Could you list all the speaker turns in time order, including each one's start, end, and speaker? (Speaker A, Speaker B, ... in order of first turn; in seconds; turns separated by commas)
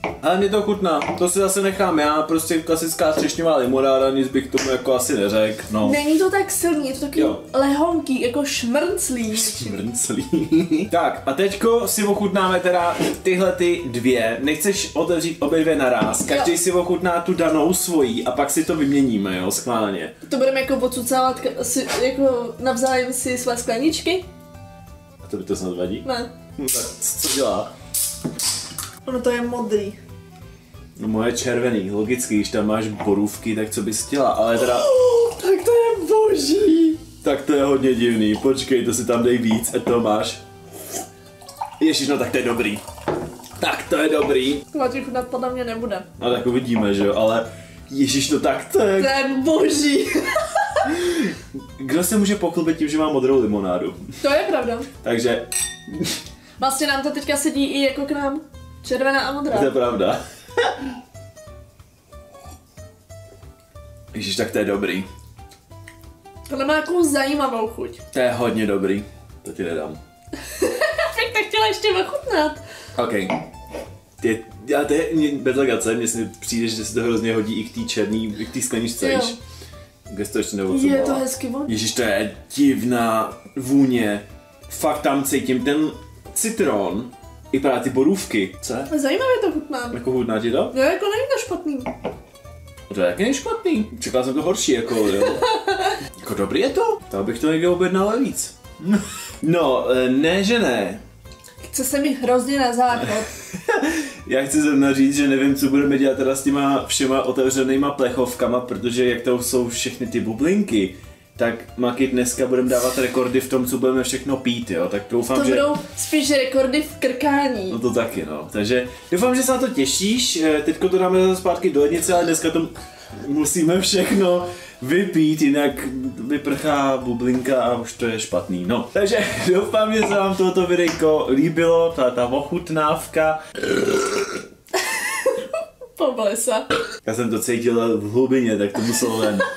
Speaker A: 0.2-6.0, Speaker B: 5.8-9.8, Speaker A: 9.3-20.1, Speaker B: 20.2-24.3, Speaker A: 25.2-26.0, Speaker B: 26.0-26.3, Speaker A: 26.6-27.7, Speaker B: 29.0-30.0, Speaker A: 31.0-34.9, Speaker B: 34.7-37.0, Speaker A: 37.2-40.4, Speaker A: 41.8-42.8, Speaker A: 43.6-44.6, Speaker B: 44.7-46.1, Speaker A: 46.2-49.1, Speaker B: 49.0-50.9, Speaker A: 50.8-54.1, Speaker B: 54.2-54.9, Speaker A: 55.0-56.2, Speaker B: 56.6-59.7, Speaker A: 59.5-60.8, Speaker A: 64.1-65.1, Speaker B: 66.5-68.0, Speaker A: 68.1-70.0, Speaker B: 70.4-72.6, Speaker A: 72.9-73.4, Speaker A: 74.2-79.4, Speaker B: 79.0-79.3, Speaker A: 80.1-88.9, Speaker B: 80.7-81.7, Speaker B: 88.9-90.0, Speaker A: 89.9-90.7, Speaker B: 90.7-91.9, Speaker A: 92.9-95.5, Speaker B: 95.3-96.0, Speaker A: 96.2-101.0, Speaker B: 101.7-103.3, Speaker A: 103.5-115.7, Speaker B: 115.3-117.8, Speaker A: 117.7-134.3, Speaker B: 134.7-136.7, Speaker A: 137.0-139.5